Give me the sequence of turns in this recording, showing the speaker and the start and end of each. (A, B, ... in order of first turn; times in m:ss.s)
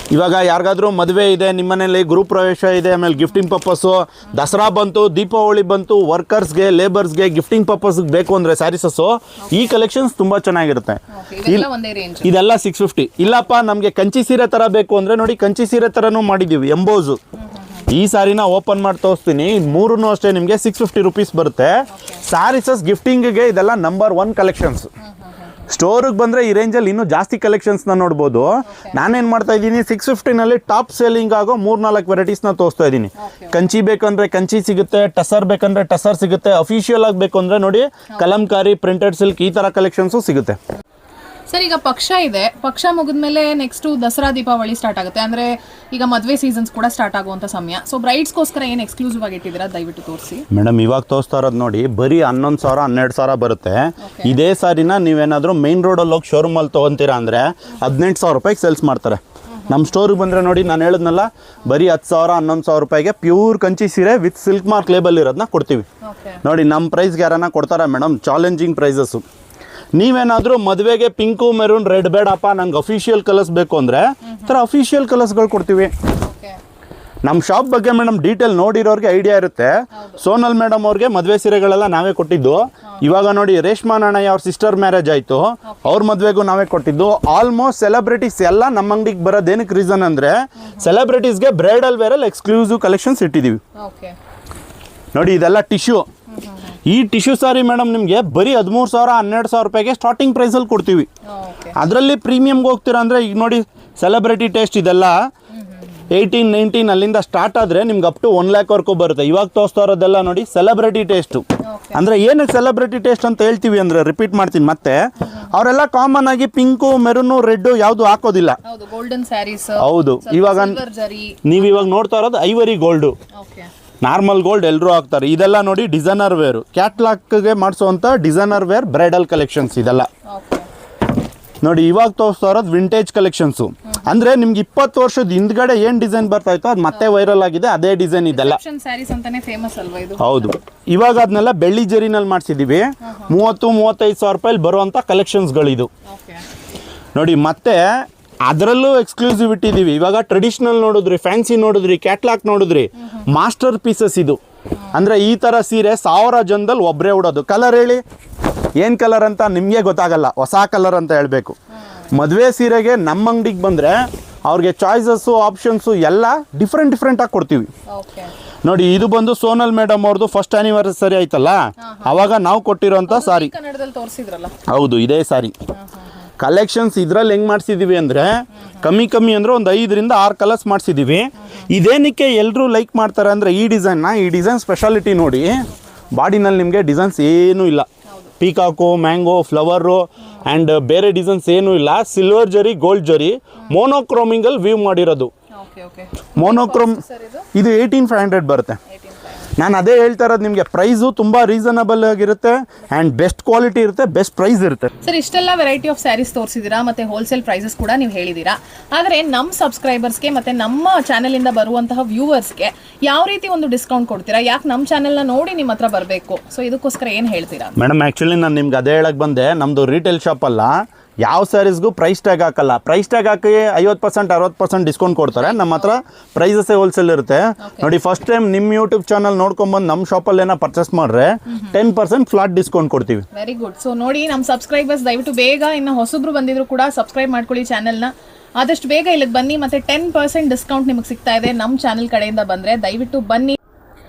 0:00.1-0:11.7 A
0:09.4-0:09.8 B
0:11.1-0:12.3 B
0:12.2-0:17.2 A
0:17.4-0:17.9 B
0:17.9-0:24.9 A
0:21.9-0:22.2 B
0:25.0-0:25.5 B
0:25.7-0:40.6 A
0:28.7-0:29.0 B
0:33.2-0:33.6 B
0:41.5-0:50.5 B
0:50.5-1:05.9 A
0:54.0-0:54.4 B
0:59.5-0:59.9 B
1:06.0-1:06.4 B
1:06.4-1:09.2 A
1:10.0-1:15.9 A
1:14.2-1:14.6 B
1:16.2-1:16.6 B
1:17.2-1:33.6 A
1:19.9-1:20.2 B
1:30.6-1:30.9 B
1:33.8-1:34.2 B
1:35.1-1:36.0 A
1:36.3-1:36.8 B
1:36.8-1:41.1 A
1:41.2-1:41.8 B
1:41.7-1:45.2 A
1:45.6-1:45.8 B
1:46.1-1:58.6 A
1:51.6-1:52.0 B
1:55.2-1:55.5 B
1:58.6-2:01.5 B
1:59.8-2:00.8 A
2:01.4-2:03.2 A
2:03.3-2:03.7 B
2:04.0-2:10.1 A
2:10.3-2:10.7 B
2:11.6-2:18.6 A
2:18.3-2:20.5 B
2:20.2-2:25.9 A
2:23.0-2:23.3 B
2:26.1-2:26.5 B
2:27.2-2:34.4 A
2:33.0-2:33.2 B
2:34.9-2:38.0 A
2:38.8-2:41.6 A
2:42.1-2:47.7 A
2:47.9-2:48.3 B
2:48.6-2:53.5 A
2:51.8-2:52.2 B
2:53.1-2:54.6 B
2:54.6-2:55.6 A
2:55.7-2:56.1 B
2:56.4-3:07.9 A
3:08.4-3:15.3 A
3:15.5-3:17.5 B
3:16.4-3:17.0 A
3:17.5-3:18.8 A
3:18.9-3:19.5 B
3:19.6-3:24.9 A
3:25.0-3:37.8 B
3:37.8-3:53.3 A
3:45.4-3:45.9 B
3:47.6-3:47.9 B
3:51.5-3:51.8 B
3:53.3-4:03.6 B